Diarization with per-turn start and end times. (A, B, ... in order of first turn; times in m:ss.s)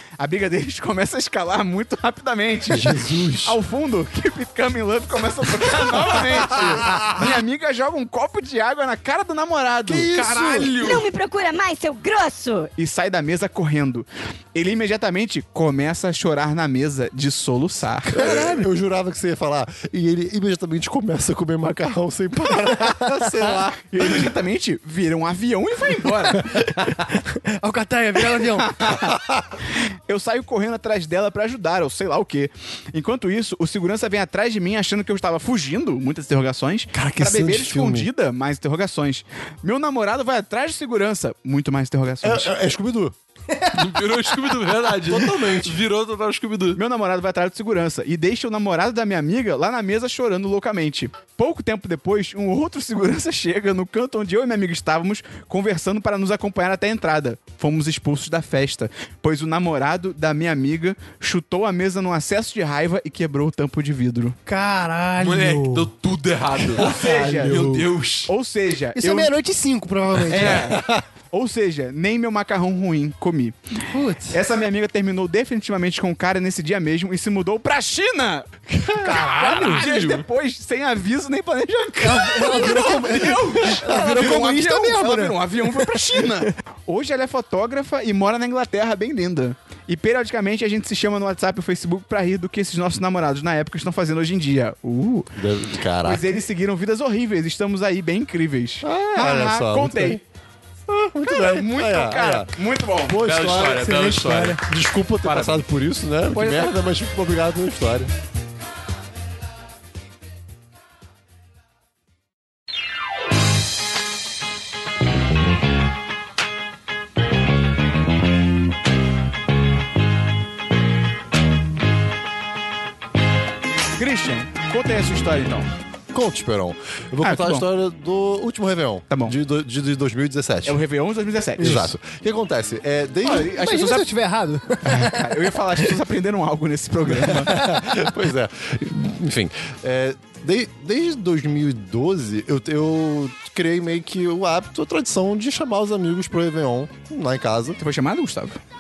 0:00.2-0:10.1 A
0:02.7-0:03.6 B
0:06.2-0:07.3 B
0:09.9-0:10.8 B
0:10.0-0:11.0 C
0:10.7-0:12.7 D
0:12.8-0:18.3 A
0:18.1-0:24.3 B
0:23.2-0:26.6 A
0:26.4-0:28.8 E
0:28.3-0:29.2 A
0:29.0-0:29.5 B
0:29.7-0:42.5 A
0:36.9-0:38.1 B
0:42.2-0:43.2 B
0:43.5-0:44.7 E
0:43.7-0:46.8 C
0:45.0-0:45.8 B
0:46.8-1:04.4 A
1:04.5-1:05.9 E
1:05.2-1:08.3 C
1:06.8-1:09.3 A
1:09.0-1:10.6 E
1:10.3-1:13.6 A
1:10.4-1:10.7 C
1:10.4-1:11.0 B
1:13.9-1:14.4 E
1:14.3-1:35.3 A
1:18.7-1:19.3 B
1:19.0-1:19.8 E
1:19.1-1:20.2 C
1:22.0-1:26.3 E
1:35.4-1:36.2 B
1:36.0-1:40.2 A
1:38.8-1:40.2 B
1:40.9-1:42.5 B
1:41.2-1:43.2 A
1:43.0-1:48.1 B
1:43.2-1:44.6 C
1:43.5-1:44.6 E
1:45.2-1:45.6 C
1:46.3-1:46.8 A
2:04.0-2:05.7 A
2:06.1-2:10.8 B
2:07.2-2:07.6 A
2:09.1-2:09.4 A
2:10.7-2:11.9 A
2:11.6-2:14.0 B
2:11.6-2:11.9 E
2:13.2-2:15.8 E
2:13.3-2:14.0 A
2:14.8-2:17.6 A
2:17.2-2:27.8 B
2:27.8-2:28.6 A